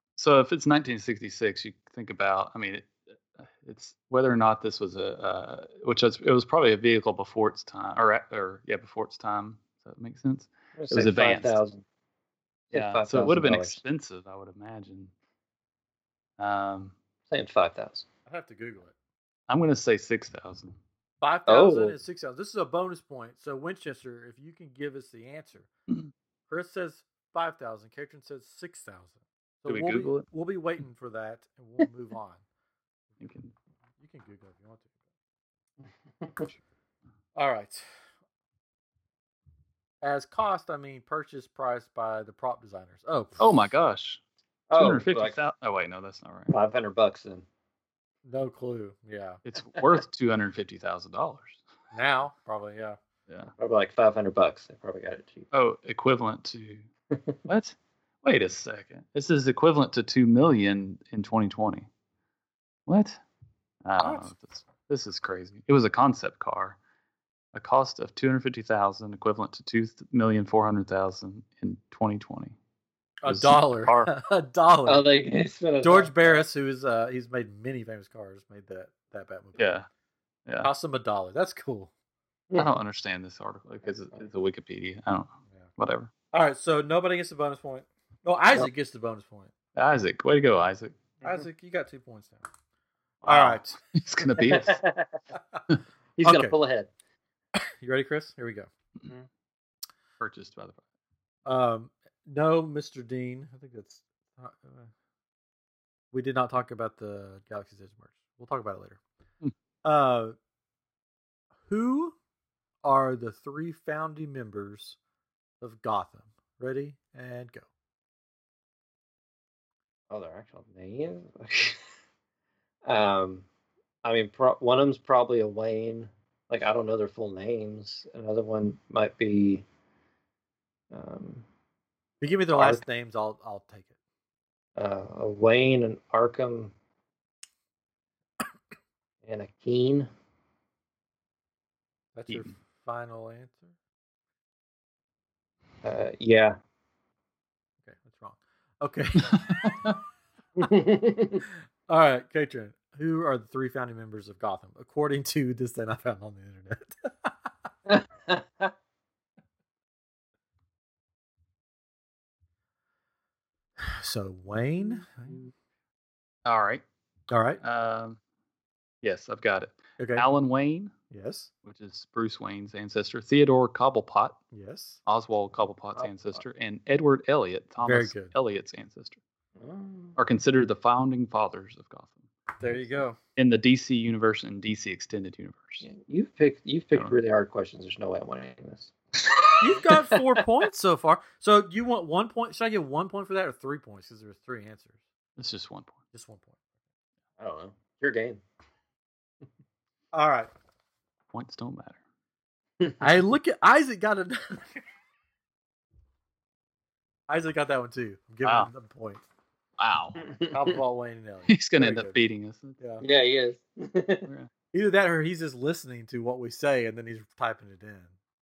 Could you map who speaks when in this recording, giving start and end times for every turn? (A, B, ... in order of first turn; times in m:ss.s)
0:00.2-0:11.6 A
0:10.8-0:11.8 B
0:12.7-0:13.8 B
0:12.7-0:15.1 A
0:16.4-0:17.0 A
0:17.3-0:18.0 B
0:18.3-0:19.0 C
0:19.5-0:20.8 A
0:21.2-0:25.7 C
0:21.5-0:22.0 B
0:26.5-0:32.4 C
0:29.7-0:30.3 A
0:33.2-0:33.5 A
0:34.0-0:34.9 C
0:36.2-0:36.5 B
0:37.4-0:37.8 C
0:40.0-0:43.5 C
0:43.4-0:44.2 A
0:44.7-0:45.4 B
0:44.8-0:46.5 A
0:46.5-0:47.5 B
0:48.2-0:49.4 C
0:49.4-0:51.6 A
0:51.9-0:53.0 C
0:53.6-0:55.5 B
0:55.5-0:56.9 A
0:57.5-1:01.9 A
1:02.9-1:03.2 A
1:03.8-1:06.8 A
1:04.0-1:04.3 C
1:07.5-1:12.6 A
1:13.2-1:15.0 C
1:13.2-1:14.1 A
1:14.9-1:16.4 B
1:15.8-1:19.8 C
1:19.6-1:19.9 A
1:20.6-1:21.9 C
1:22.6-1:26.1 A
1:26.3-1:29.5 C
1:29.8-1:31.0 A
1:31.2-1:32.4 C
1:33.2-1:34.8 A
1:33.2-1:33.8 C
1:34.5-1:35.2 B
1:36.2-1:36.9 B
1:36.2-1:36.6 C
1:37.6-1:38.7 C
1:40.2-1:40.8 A
1:41.4-1:44.9 C
1:46.1-1:49.0 C
1:49.8-1:50.4 C
1:51.7-1:52.2 C
1:52.8-1:55.0 C
1:55.6-1:57.7 C
2:00.1-2:01.8 B
2:02.9-2:03.5 B
2:04.0-2:09.6 B
2:10.9-2:11.5 B
2:12.2-2:13.9 C
2:12.5-2:12.8 B
2:14.8-2:16.7 B
2:19.2-2:20.1 B
2:22.2-2:23.7 C
2:25.8-2:26.6 B
2:27.8-2:29.5 C
2:29.2-2:30.0 A
2:30.6-2:31.4 B
2:31.5-2:37.5 C
2:37.9-2:38.7 B
2:43.8-2:45.4 C
2:44.8-2:45.5 A
2:46.4-2:46.8 A
2:47.3-2:47.6 C
2:47.6-2:48.2 A
2:49.0-2:50.9 A
2:50.0-2:50.3 C
2:51.1-2:51.5 C
2:51.6-2:54.4 A
2:54.5-2:55.0 C
2:55.1-2:59.2 A
2:56.0-2:56.4 B
2:57.8-2:58.3 C
2:59.6-3:00.2 B
3:00.2-3:02.3 A
3:02.6-3:03.2 C
3:03.4-3:05.8 A
3:05.8-3:10.4 B
3:09.6-3:15.0 C
3:15.4-3:16.0 A
3:16.1-3:16.6 C
3:17.4-3:18.4 B
3:20.1-3:20.5 C
3:21.3-3:22.0 A
3:22.8-3:23.1 B
3:23.0-3:24.8 C
3:27.3-3:29.2 C
3:28.4-3:28.7 A
3:29.8-3:30.3 A
3:30.2-3:30.8 B
3:30.5-3:32.2 C
3:31.5-3:32.8 A
3:32.8-3:33.0 C
3:33.0-3:34.3 B
3:34.2-3:34.5 A
3:34.7-3:38.1 C